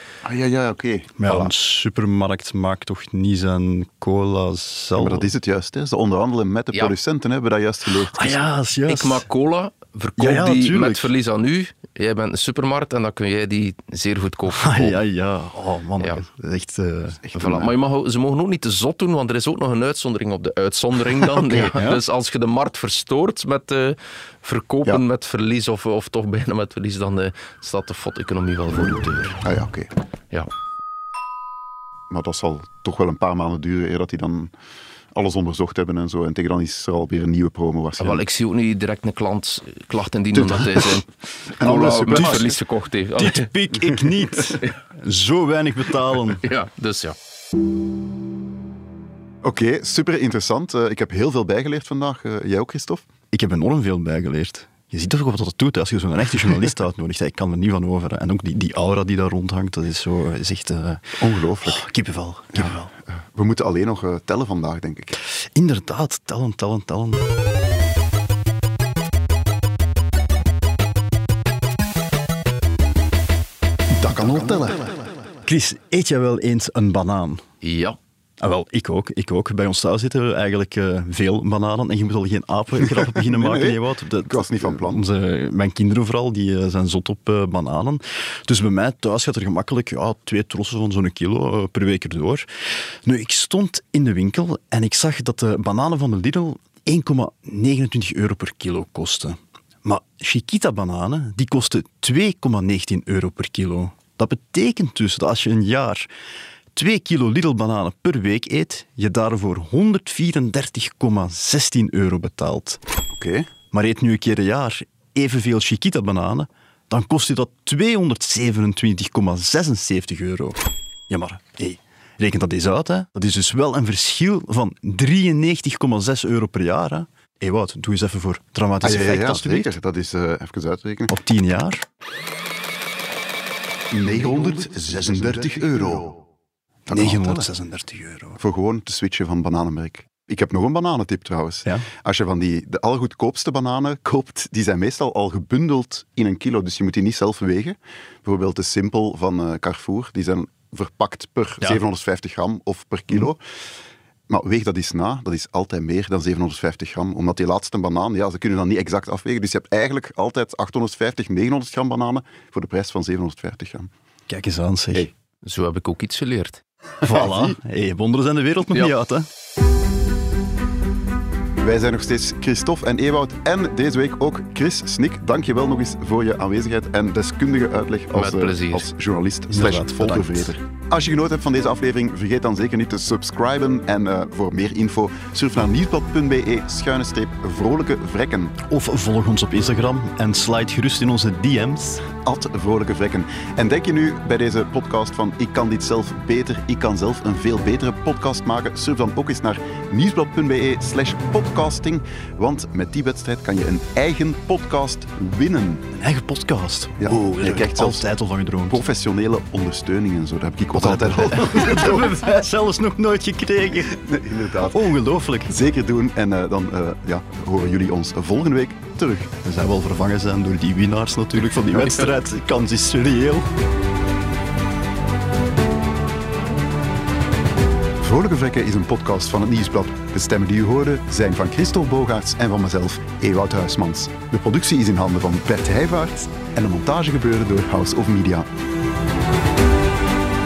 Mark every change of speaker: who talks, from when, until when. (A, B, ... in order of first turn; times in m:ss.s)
0:00.2-0:01.3 A
0:01.2-0:05.3 B
0:05.0-0:08.5 A
0:07.9-0:09.3 B
0:08.9-0:15.0 C
0:10.2-0:11.1 B
0:14.5-0:17.2 B
0:16.0-0:16.2 C
0:17.2-0:17.7 A
0:17.3-0:29.4 C
0:21.4-0:22.0 B
0:29.4-0:29.9 A
0:32.1-0:34.5 A
0:35.1-0:38.2 A
0:38.0-0:41.1 C
0:40.3-0:41.0 A
0:41.6-0:42.4 A
0:41.6-0:43.5 C
0:41.6-0:42.5 B
0:43.2-0:46.4 B
0:46.4-0:47.2 C
0:49.4-0:53.0 A
0:53.3-1:02.9 B
1:01.2-1:01.8 A
1:02.5-1:02.8 A
1:03.3-1:05.2 A
1:05.5-1:07.2 B
1:13.9-1:14.9 A
1:15.4-1:17.4 B
1:17.6-1:18.0 C
1:18.4-1:32.5 B
1:22.8-1:25.0 A
1:33.0-1:46.1 B
1:46.7-1:52.8 B
1:53.2-1:53.5 A
1:53.7-2:09.8 B
2:08.8-2:11.1 A
2:11.1-2:11.8 B
2:13.9-2:16.2 A
2:16.9-2:17.5 A
2:16.9-2:18.4 B
2:18.4-2:33.4 A
2:34.3-2:43.9 A
2:44.3-2:45.1 B
2:45.4-2:46.6 C
2:47.0-2:49.3 B
2:47.1-2:47.4 A
2:51.6-3:08.6 A
2:58.1-2:58.9 C
2:59.5-3:00.6 B
3:08.6-3:12.1 B
3:12.2-3:25.8 A
3:25.9-3:28.8 B
3:27.0-3:28.1 A
3:28.7-3:32.1 A
3:30.7-3:34.0 B
3:34.0-3:34.9 A
3:34.6-3:35.5 B
3:35.5-3:39.3 A
3:39.4-3:43.5 B
3:41.7-3:42.0 A
3:48.0-3:58.5 A